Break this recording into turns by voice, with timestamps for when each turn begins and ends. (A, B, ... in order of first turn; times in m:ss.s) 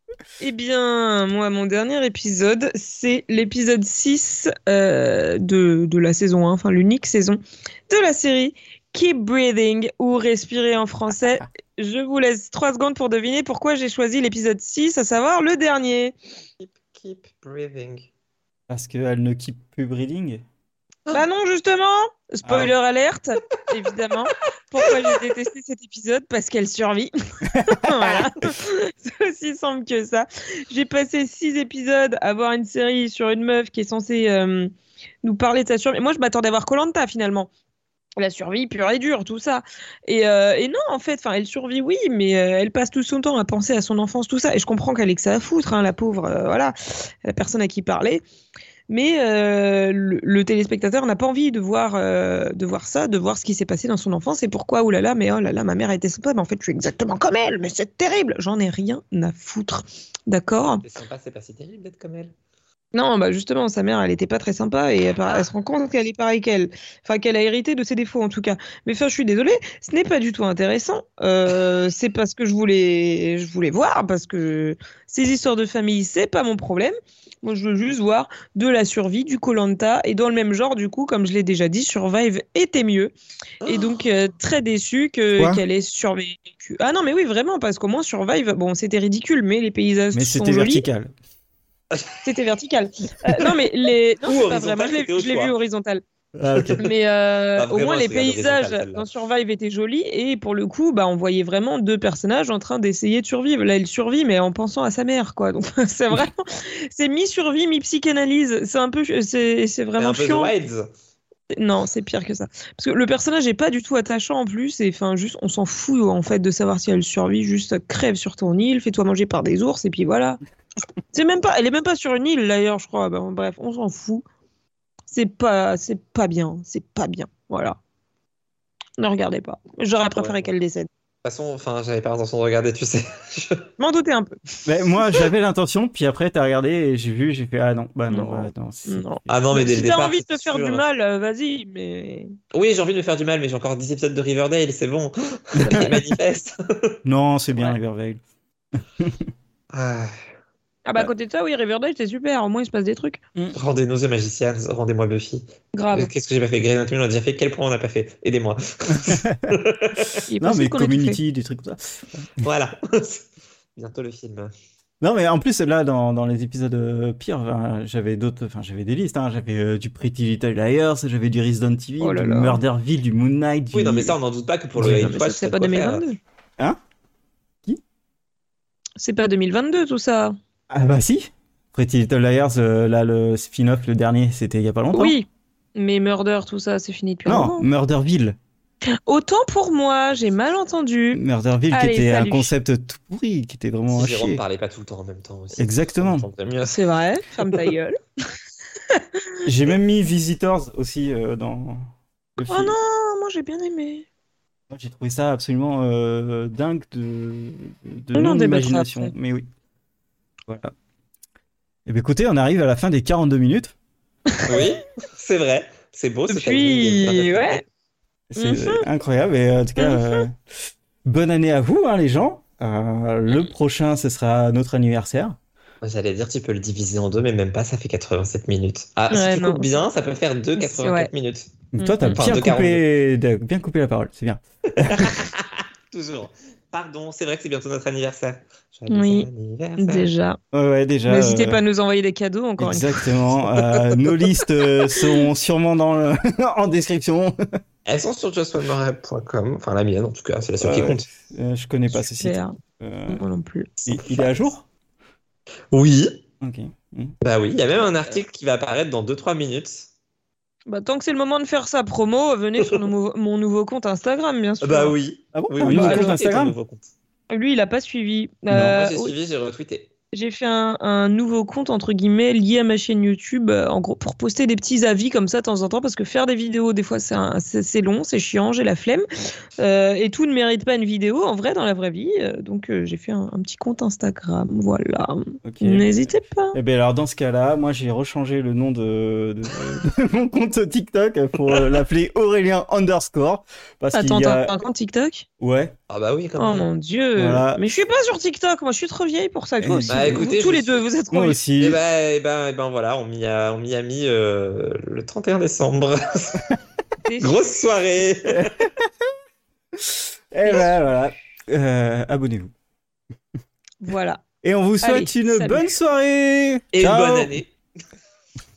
0:00.4-0:16.1 A
0:16.6-0:18.1 B
0:18.7-0:20.4 C
0:21.1-0:27.1 A
0:22.4-0:22.7 C
0:24.8-0:25.2 B
0:27.5-0:28.1 C
0:27.6-0:34.7 A
0:35.2-0:37.5 A
0:38.2-0:46.7 A
0:47.2-0:48.2 A
0:48.9-1:00.8 A
1:00.8-1:02.3 B
1:02.9-1:30.8 A
1:23.6-1:24.0 B
1:25.3-1:25.6 C
1:30.1-1:31.1 C
1:31.9-1:32.4 B
1:32.2-1:36.0 A
1:34.2-1:35.5 B
1:36.4-1:36.8 C
1:36.5-1:36.8 B
1:36.8-1:50.5 A
1:37.6-1:39.1 B
1:50.0-1:50.9 B
1:51.5-2:00.4 A
2:01.1-2:04.2 A
2:05.1-2:07.8 A
2:09.0-2:10.9 A
2:10.2-2:10.4 B
2:11.2-2:13.7 B
2:13.8-2:14.4 A
2:14.6-2:19.4 C
2:18.1-2:22.3 A
2:19.3-2:20.8 B
2:22.5-2:26.9 B
2:25.6-2:25.9 C
2:25.6-2:26.0 A
2:27.0-2:28.2 C
2:29.0-2:29.3 C
2:29.7-2:30.2 B
2:30.8-2:33.2 A
2:33.5-2:40.2 B
2:35.7-2:36.1 A
2:39.0-2:39.5 C
2:40.3-2:41.2 A
2:40.4-2:42.3 C
2:42.4-2:44.5 B
2:45.0-2:54.1 C
2:52.0-2:52.6 A
2:53.7-2:56.0 B
2:54.8-2:55.0 C
2:54.8-2:56.2 A
2:59.0-3:00.4 A
3:00.7-3:05.2 C
3:04.9-3:07.6 A
3:07.2-3:08.4 C
3:09.1-3:11.2 A
3:11.1-3:14.4 C
3:11.7-3:12.5 A
3:13.9-3:16.8 B
3:15.6-3:16.3 C
3:16.7-3:18.0 A
3:17.4-3:17.6 B
3:18.9-3:19.4 A
3:19.4-3:22.7 C
3:22.5-3:24.0 A
3:24.7-3:29.5 C
3:28.2-3:29.1 A
3:30.5-3:30.7 C
3:31.9-3:33.8 C
3:34.4-3:34.7 A
3:34.5-3:37.6 B
3:36.3-3:37.6 A
3:38.3-3:40.4 C
3:38.4-3:38.8 A
3:39.8-3:40.2 A
3:41.0-3:45.4 C
3:45.8-3:51.5 B
3:49.1-3:49.7 A
3:50.6-3:51.1 A
3:51.7-3:55.1 C
3:51.8-3:52.2 A
3:52.1-3:52.8 B
3:54.8-4:00.1 B
3:58.9-3:59.3 A
3:59.8-4:00.4 A
4:00.5-4:01.6 C
4:01.1-4:03.1 A
4:02.6-4:07.6 C
4:07.8-4:11.1 B
4:10.6-4:13.2 C
4:11.9-4:12.6 A
4:13.1-4:14.0 A
4:13.8-4:14.6 C
4:15.7-4:16.2 B
4:16.4-4:17.1 C
4:17.2-4:19.9 B
4:20.7-4:24.9 A
4:24.6-4:26.9 B
4:25.3-4:26.5 C
4:25.6-4:26.2 A
4:27.3-4:29.1 A
4:28.5-4:29.9 B
4:30.1-4:39.1 A
4:39.6-4:46.5 A
4:45.4-4:54.5 C
4:51.5-4:51.8 B
4:53.9-4:55.2 A
4:55.4-4:55.7 C
4:55.9-4:56.7 B
4:56.4-5:01.4 A
4:57.2-4:57.6 C
4:59.6-5:00.3 C
4:59.9-5:00.8 B
5:01.1-5:01.8 C
5:01.6-5:06.4 B
5:07.0-5:07.4 A
5:07.2-5:08.7 B
5:08.3-5:08.7 C
5:09.8-5:12.5 C
5:10.4-5:10.7 A
5:13.8-5:14.2 A
5:14.4-5:17.4 C
5:14.8-5:15.7 A
5:16.7-5:17.5 B